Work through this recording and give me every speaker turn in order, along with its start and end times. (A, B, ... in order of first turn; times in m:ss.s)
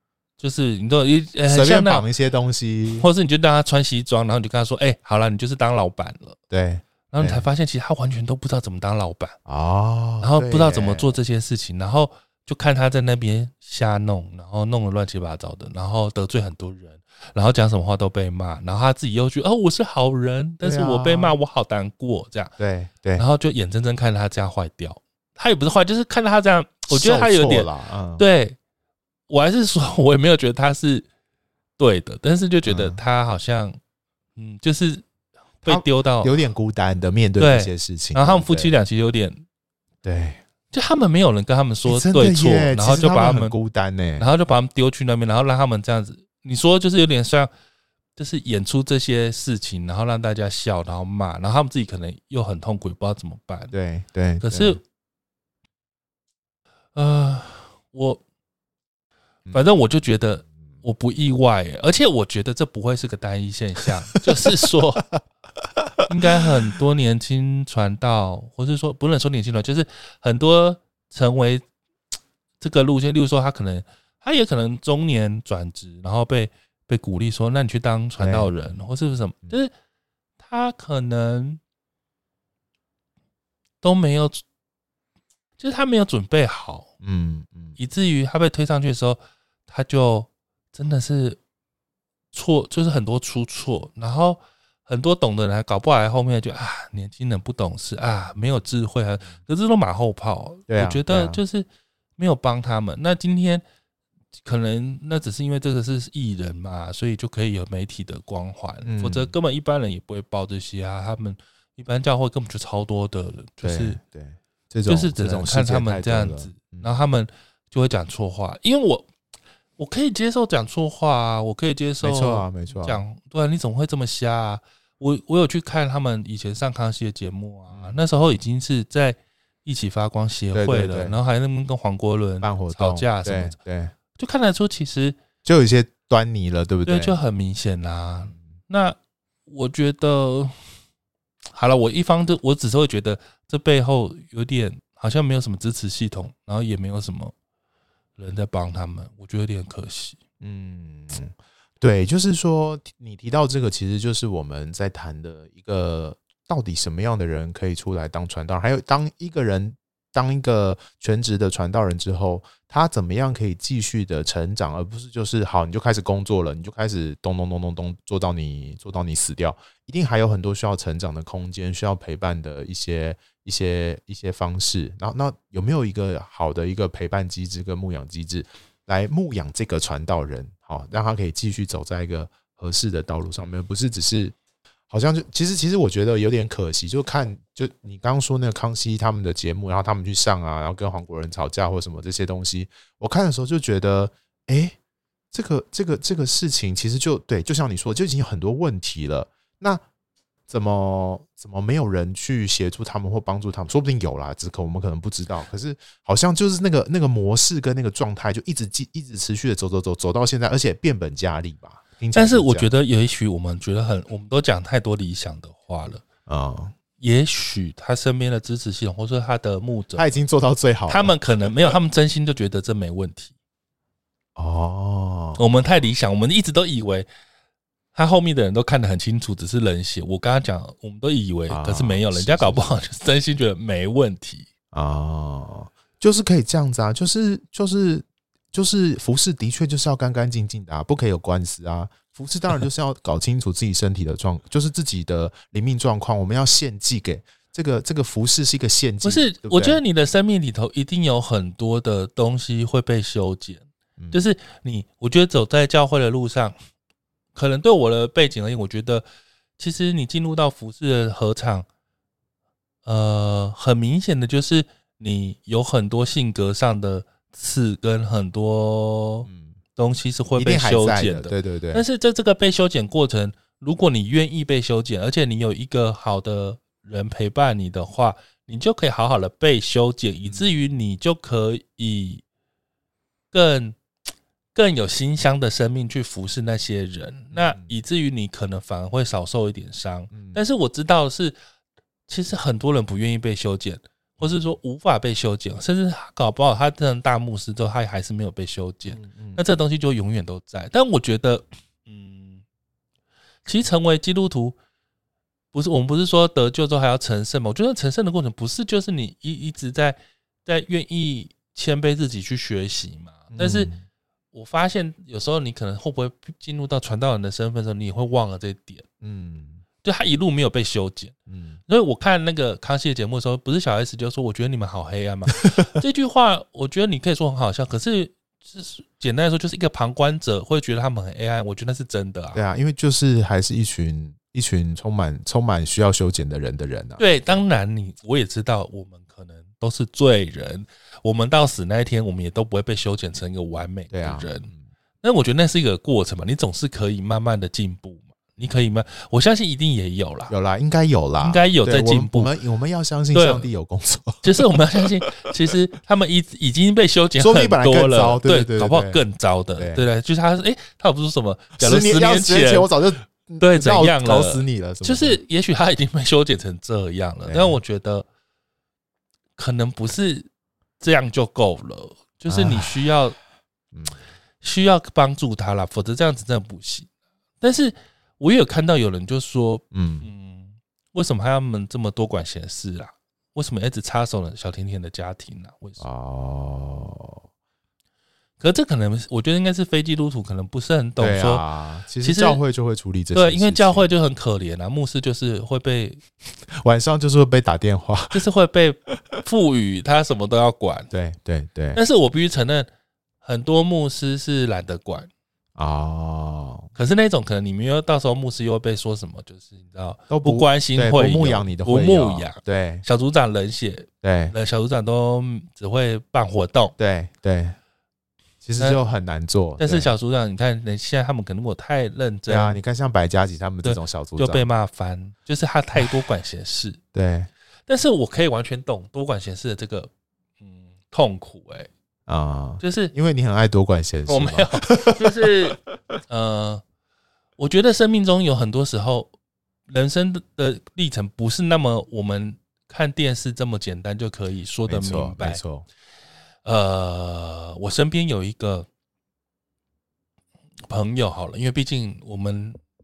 0:00.4-0:02.0 A
0:01.5-0:03.0 B
0:03.0-0:06.4 A
0:06.5-0:07.4 B
0:07.1-0:09.4 A
0:09.4-0:11.2 B
0:10.2-0:22.5 A
0:20.6-0:21.4 B
0:22.6-0:23.2 B
0:23.2-0:28.6 A
0:26.9-0:28.2 B
0:29.3-0:31.1 A
0:31.8-0:33.8 A
0:32.6-0:33.0 B
0:34.4-0:35.0 A
0:35.6-0:36.3 A
0:35.6-0:38.7 B
0:37.4-0:39.4 A
0:40.0-0:40.4 B
0:40.7-0:43.5 A
0:41.8-0:44.3 B
0:44.2-0:47.5 A
0:48.2-0:53.7 A
0:53.7-0:54.8 B
0:54.4-0:54.8 A
0:56.9-0:58.2 A
0:59.5-1:05.1 A
1:06.1-1:11.6 A
1:12.6-1:19.7 A
1:18.2-1:18.5 B
1:20.4-1:21.6 A
1:23.8-1:24.4 A
1:25.6-1:26.9 A
1:27.0-1:27.8 B
1:27.8-1:31.4 A
1:32.3-1:41.6 A
1:40.7-1:41.4 B
1:42.2-1:43.6 A
1:44.4-1:54.0 A
1:48.8-1:49.3 B
1:53.6-1:56.9 B
1:54.9-1:59.1 A
1:59.8-2:13.6 A
2:02.0-2:03.0 B
2:07.7-2:08.0 B
2:10.5-2:11.1 B
2:12.4-2:13.9 B
2:14.2-2:15.2 A
2:15.4-2:17.2 B
2:16.8-2:20.6 A
2:21.5-2:27.3 A
2:28.2-2:30.2 A
2:30.4-3:04.3 B
3:04.9-3:14.8 B
3:15.3-3:19.8 B
3:20.5-3:32.7 B
3:32.1-3:36.0 A
3:36.3-3:36.7 B
3:37.0-3:40.2 A
3:40.0-3:41.1 B
3:40.9-3:43.3 A
3:44.4-3:45.4 B
3:45.4-3:47.1 A
3:47.9-3:54.5 A
3:51.5-3:52.7 B
3:54.7-4:09.8 B
4:09.0-4:16.5 A
4:17.3-4:19.0 A
4:19.6-4:21.6 A
4:22.8-4:42.2 A
4:29.3-4:29.6 B
4:30.4-4:31.8 B
4:43.3-4:43.8 A
4:44.5-4:51.3 A
4:47.3-4:47.7 B
4:50.1-4:50.4 B
4:52.1-5:02.4 A
4:58.9-4:59.4 B
5:03.4-5:04.6 A
5:05.5-5:13.7 A
5:13.3-5:13.8 B
5:14.3-5:18.8 A
5:19.0-5:19.6 B
5:19.8-5:21.1 A
5:21.3-5:21.6 B
5:21.7-5:32.4 A
5:32.3-5:37.4 B
5:37.0-5:44.5 A
5:43.9-5:44.6 B
5:45.0-5:50.3 A
5:50.3-5:54.2 B
5:51.2-5:52.3 A
5:53.1-5:53.5 A
5:54.2-6:02.7 A
5:57.2-5:59.0 B
5:59.6-5:59.8 B
6:01.6-6:05.2 B
6:03.4-6:08.0 A
6:07.2-6:07.6 B
6:09.4-6:10.3 A
6:10.8-6:13.2 A
6:12.3-6:12.7 B
6:13.7-6:14.0 B
6:14.4-6:16.9 A
6:17.4-6:25.8 A
6:19.7-6:20.1 B
6:25.8-6:27.2 B
6:28.4-6:31.4 A
6:31.0-6:33.9 B
6:32.0-6:32.4 A
6:33.1-6:36.0 A
6:36.5-6:38.2 B
6:38.1-6:40.9 A
6:40.9-6:41.8 B
6:41.7-6:42.7 A
6:43.2-6:45.1 A
6:45.6-6:46.7 B
6:46.7-6:56.7 A
6:50.1-6:52.8 B
6:54.0-6:54.3 B
6:56.8-6:57.6 B
6:58.4-6:59.9 B
6:59.6-7:02.6 A
7:02.3-7:04.5 B
7:03.6-7:06.8 A
7:06.9-7:07.3 B
7:07.7-7:09.9 A
7:10.4-7:11.7 A
7:12.1-7:15.5 B
7:12.6-7:12.9 A
7:14.1-7:16.6 A
7:17.4-7:19.1 A
7:19.7-7:25.4 A
7:24.7-7:25.6 B
7:26.4-7:28.7 A
7:30.7-7:32.6 A